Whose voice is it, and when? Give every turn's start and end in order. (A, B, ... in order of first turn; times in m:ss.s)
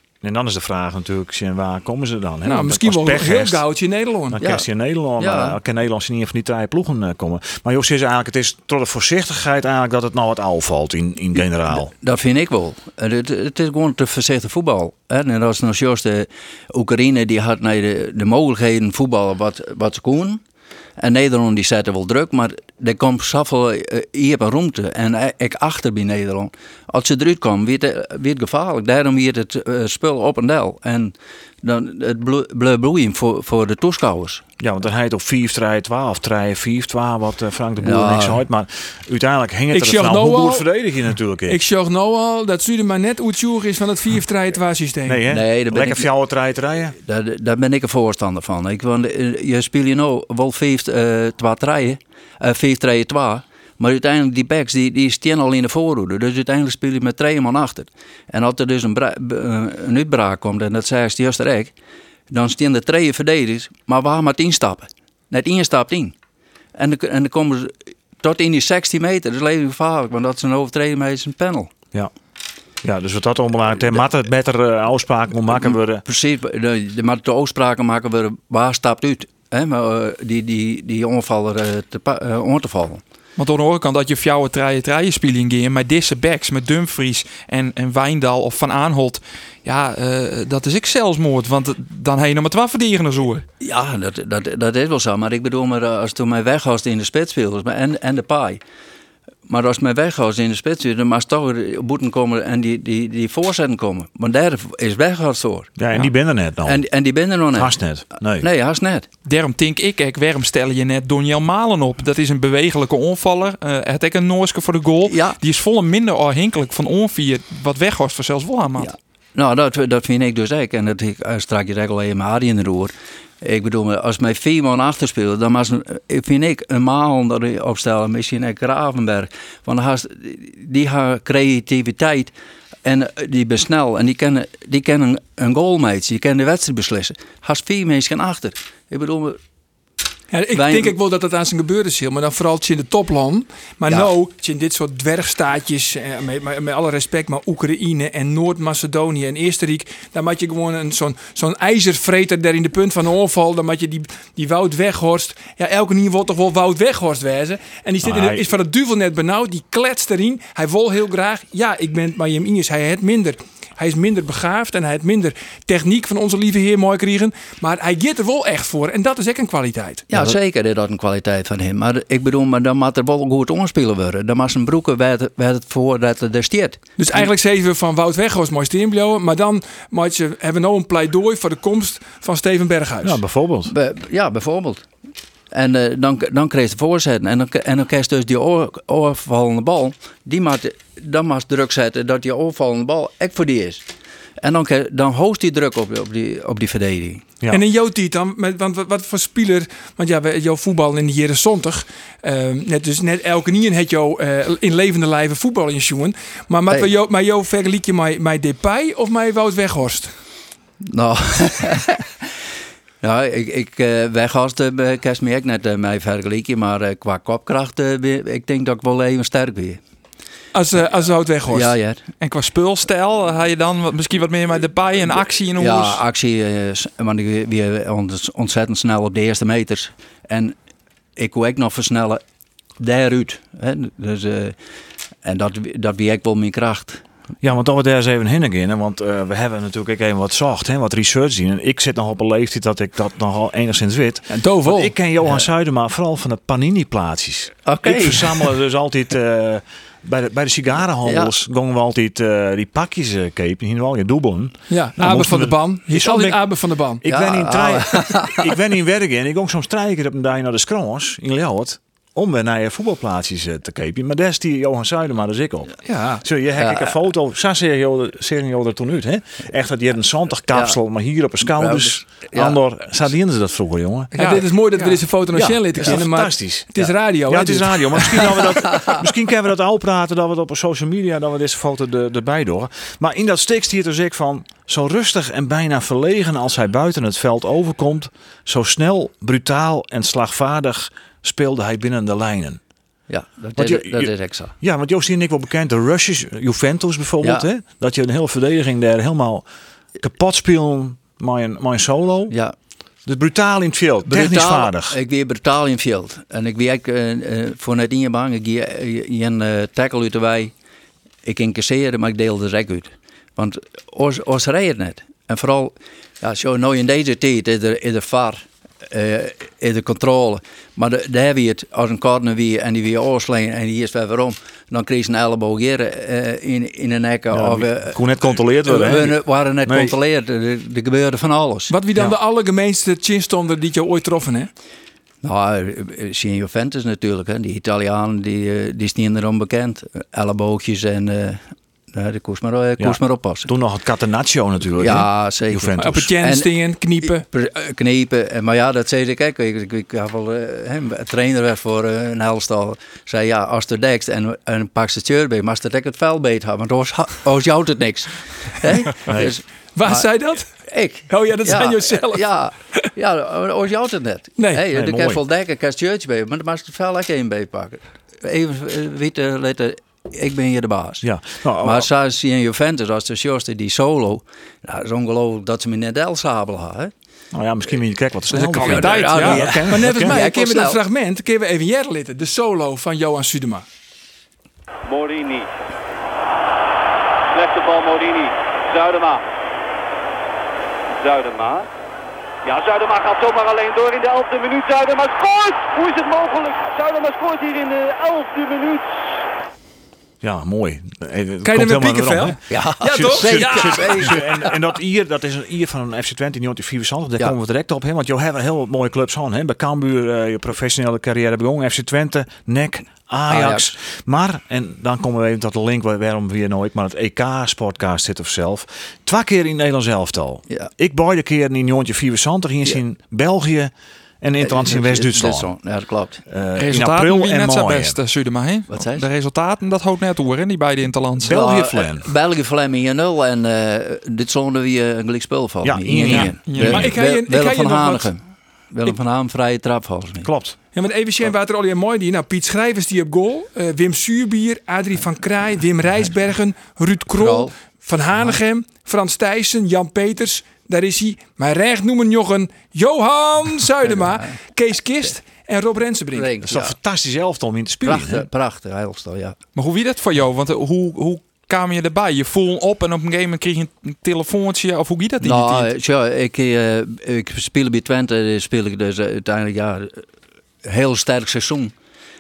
0:00.2-0:03.6 A
0:02.4-0:04.4 B
0:04.3-0:11.9 A
0:04.4-0:04.7 C
0:05.2-0:05.6 C
0:11.7-0:20.4 C
0:21.0-0:34.4 C
0:34.6-0:41.6 A
0:37.8-0:38.4 C
0:39.7-0:40.6 B
0:41.5-0:45.2 B
0:45.0-0:47.0 A
0:45.3-0:46.1 C
0:47.0-1:01.7 C
1:02.3-1:06.2 C
1:06.8-1:11.7 C
1:12.8-1:16.0 A
1:16.0-1:23.0 C
1:23.4-1:33.5 D
1:33.6-1:38.6 C
1:39.5-1:46.1 C
1:45.8-1:46.8 A
1:46.6-1:47.8 C
1:47.5-1:48.5 A
1:48.4-1:49.1 C
1:49.2-1:58.9 D
1:55.1-1:55.4 C
1:58.8-2:12.3 C
2:12.8-2:19.4 C
2:20.3-2:50.1 B
2:20.5-2:21.0 C
2:38.0-2:38.5 A
2:50.1-2:57.3 C
2:57.0-3:03.2 B
3:03.0-3:03.7 A
3:03.7-3:04.8 C
3:05.5-3:13.9 C
3:14.4-3:17.2 C
3:17.5-3:30.1 B
3:30.8-3:32.3 C
3:33.0-3:39.8 C
3:40.5-3:41.7 B
3:41.5-3:42.0 C
3:42.2-3:46.0 D
3:45.6-3:50.6 C
3:51.2-3:52.2 C
3:52.8-3:54.6 C
3:55.2-3:57.0 C
3:57.4-4:34.1 A
4:04.3-4:04.9 B
4:07.6-4:08.5 C
4:11.0-4:11.3 C
4:14.7-4:17.0 B
4:17.0-4:18.5 C
4:25.9-4:26.2 B
4:26.6-4:26.9 C
4:30.5-4:30.8 C
4:31.4-4:32.6 C
4:34.1-4:38.2 B
4:34.2-4:35.0 D
4:35.3-4:52.6 A
4:53.1-4:54.6 C
4:53.6-4:59.4 A
5:00.0-5:02.4 A
5:02.3-5:02.6 C
5:03.1-5:05.0 A
5:04.1-5:10.5 C
5:11.2-5:28.0 C
5:27.3-5:30.0 A
5:28.6-5:31.7 C
5:31.7-5:34.5 B
5:35.2-5:41.4 C
5:41.9-5:43.5 C
5:42.8-5:46.1 A
5:44.8-6:00.1 C
5:45.8-5:47.2 B
5:59.1-5:59.3 A
5:59.8-6:00.5 B
6:00.6-6:11.1 C
6:01.1-6:02.2 B
6:04.4-6:04.6 B
6:04.7-6:05.2 A
6:11.0-6:11.9 A
6:11.6-6:16.9 C
6:17.3-6:20.2 A
6:18.3-6:19.4 D
6:18.6-6:20.8 C
6:19.0-6:23.6 B
6:24.9-6:25.4 E
6:27.5-6:28.3 E
6:31.1-6:31.5 E
6:32.6-6:34.1 E
6:40.2-7:05.5 A
6:41.4-6:44.2 B
6:42.5-6:44.6 C
6:53.3-6:53.7 C
7:04.4-7:06.2 C
7:06.3-7:08.0 A
7:06.6-7:11.4 D
7:08.7-7:09.1 C
7:11.2-7:12.1 A
7:11.3-7:18.2 C
7:15.6-7:17.0 A
7:16.1-7:16.8 D
7:16.6-7:18.1 B
7:18.7-7:20.3 C
7:20.2-7:20.6 A
7:20.7-7:36.3 B
7:27.2-7:27.5 C
7:36.1-7:36.8 C
7:36.4-7:38.3 A
7:37.8-7:39.4 C
7:39.6-7:45.7 D
7:45.2-7:50.1 C
7:50.6-7:51.7 C